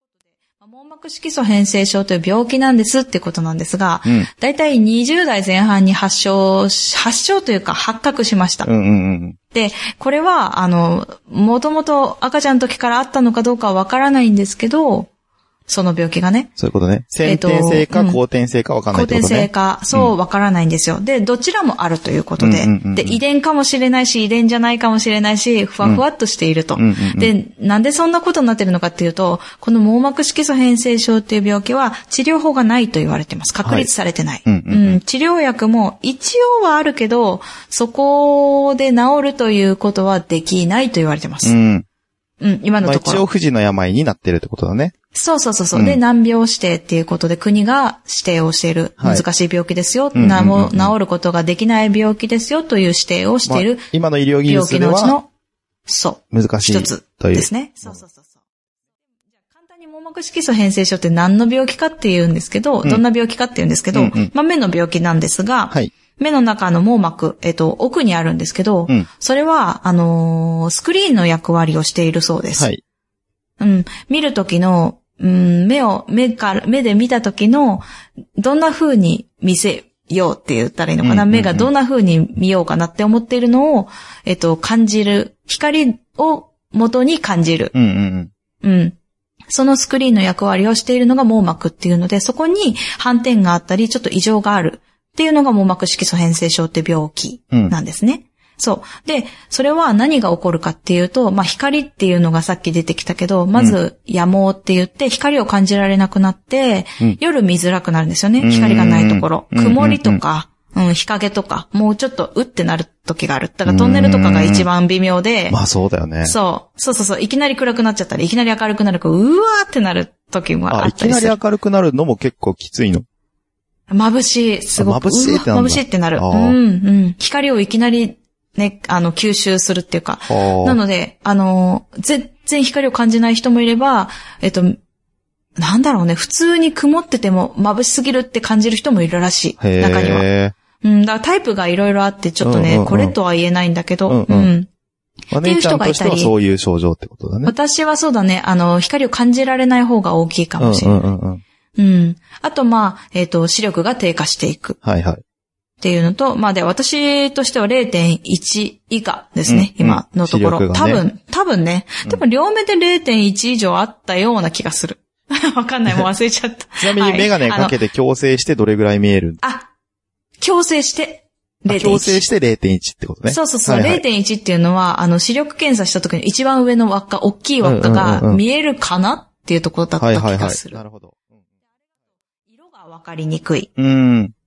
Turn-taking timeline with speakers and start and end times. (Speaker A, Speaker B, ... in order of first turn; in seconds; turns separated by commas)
Speaker A: 0.5-8.7, Speaker B: 8.6-9.4, Speaker A: 9.5-15.1, Speaker A: 15.7-16.5, Speaker B: 16.6-20.1, Speaker A: 17.2-18.2, Speaker A: 18.9-41.5, Speaker B: 22.4-23.2, Speaker B: 26.8-27.3, Speaker B: 34.5-35.0, Speaker B: 41.4-41.9, Speaker A: 42.4-43.2, Speaker B: 42.8-44.9, Speaker A: 45.1-53.9, Speaker B: 45.7-46.0, Speaker B: 50.1-50.9, Speaker B: 53.5-55.2, Speaker A: 54.5-55.3, Speaker A: 55.9-58.3, Speaker B: 56.3-57.5, Speaker A: 59.5-72.7, Speaker B: 63.9-64.3, Speaker A: 73.6-77.8, Speaker A: 78.4-87.7, Speaker B: 81.0-81.7, Speaker B: 87.7-88.3, Speaker A: 88.6-89.0, Speaker A: 89.5-115.6, Speaker B: 108.4-110.2, Speaker B: 113.7-114.7, Speaker B: 115.5-116.4, Speaker A: 116.2-121.4, Speaker B: 120.7-123.0, Speaker A: 123.9-134.8, Speaker B: 124.8-126.6, Speaker B: 130.3-130.8, Speaker A: 135.6-140.2, Speaker B: 139.6-140.5, Speaker A: 140.8-144.7, Speaker B: 142.4-143.1, Speaker B: 144.1-144.5, Speaker B: 145.3-147.5, Speaker A: 145.4-146.3, Speaker A: 147.4-151.0, Speaker B: 150.6-151.4, Speaker A: 151.8-154.8, Speaker B: 154.8-155.2, Speaker A: 155.8-167.7, Speaker B: 159.5-161.0, Speaker B: 166.8-169.4, Speaker A: 169.4-169.7, Speaker A: 170.4-172.2, Speaker B: 171.7-174.0, Speaker A: 173.3-180.8, Speaker B: 177.6-178.4, Speaker B: 180.0-181.2, Speaker A: 182.5-183.7, Speaker B: 183.8-184.3